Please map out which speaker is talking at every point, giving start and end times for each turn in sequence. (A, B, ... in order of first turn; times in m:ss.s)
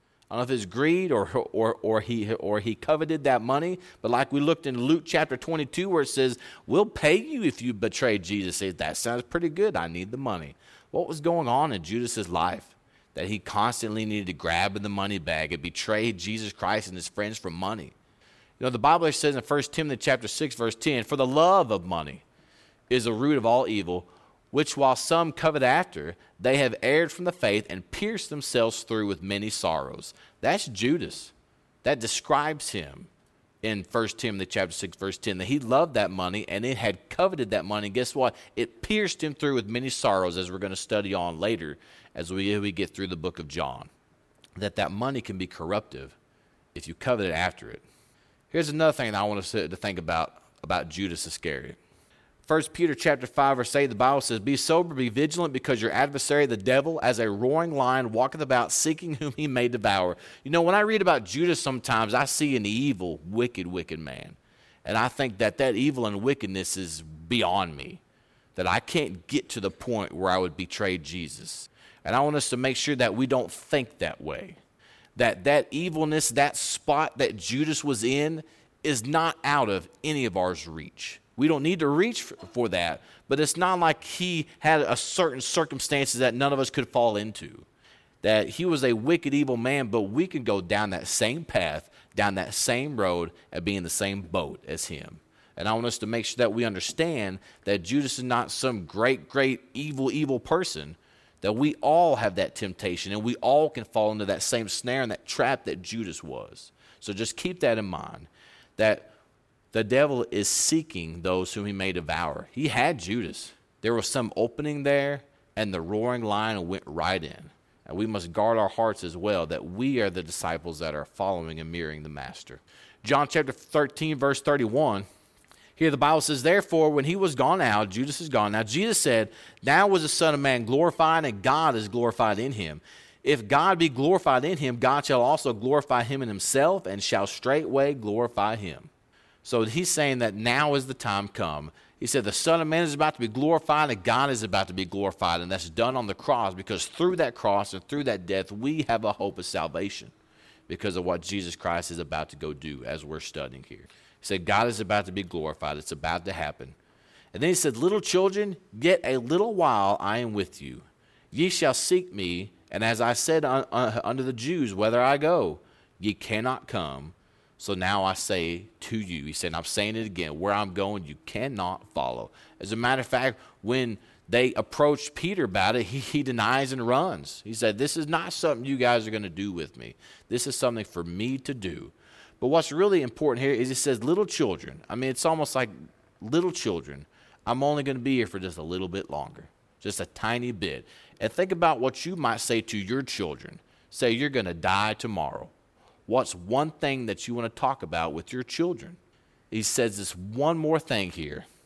0:00.3-0:17.9 A
0:18.6-0:22.2 A
0:22.9-0:31.3 A
0:31.8-0:33.1 A
0:33.6-0:43.9 A
0:44.6-0:46.2 A
0:46.8-0:47.8 A
0:48.5-0:51.8 A
0:52.5-1:08.0 A
1:08.6-1:14.6 A
1:15.2-1:27.7 A
1:28.2-1:49.1 A
1:49.7-2:05.1 A
2:05.8-2:18.9 A
2:19.4-2:30.1 A
2:30.7-2:36.8 A
2:37.3-3:15.5 A
3:16.1-3:19.0 A
3:19.5-3:21.5 A